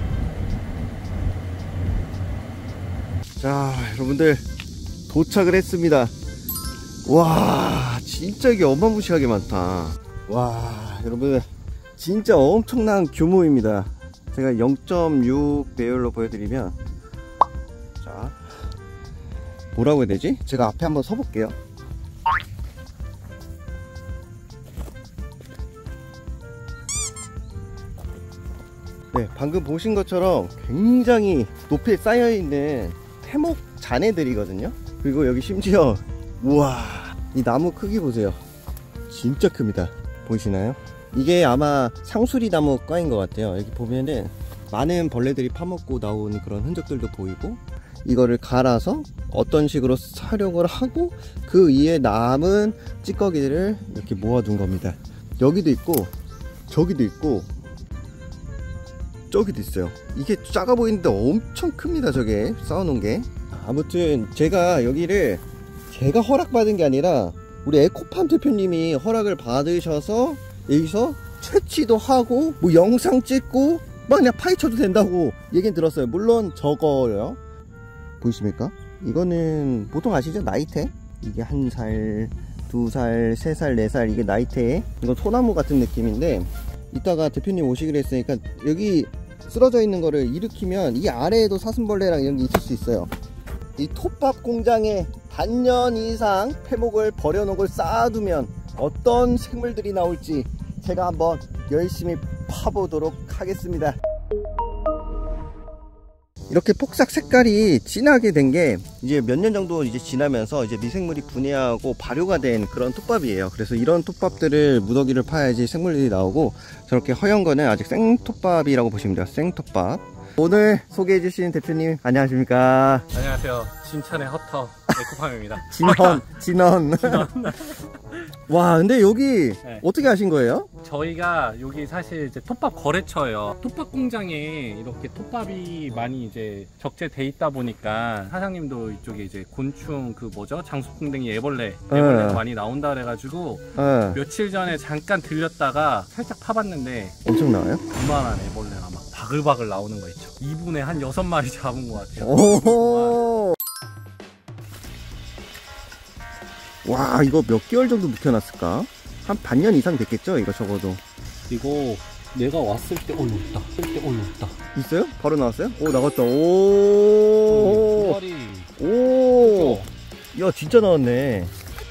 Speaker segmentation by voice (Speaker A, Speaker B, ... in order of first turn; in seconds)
Speaker A: 3.4-4.4, 5.1-6.1, 7.0-11.4, 12.0-16.8, 18.0-18.4, 19.7-21.5, 29.1-38.4, 39.1-56.1, 56.7-57.5, 59.3-77.4, 78.2-93.1, 93.8-104.0, 106.5-123.1, 125.6-127.4, 128.5-130.7, 141.9-142.4, 143.8-144.2, 147.2-147.8, 152.2-153.6, 156.8-161.0, 164.7-168.2, 168.8-171.5
Speaker B: 123.1-126.3, 127.0-128.3, 130.8-147.1, 147.9-153.2, 161.5-164.6, 167.5-168.7, 169.4-169.8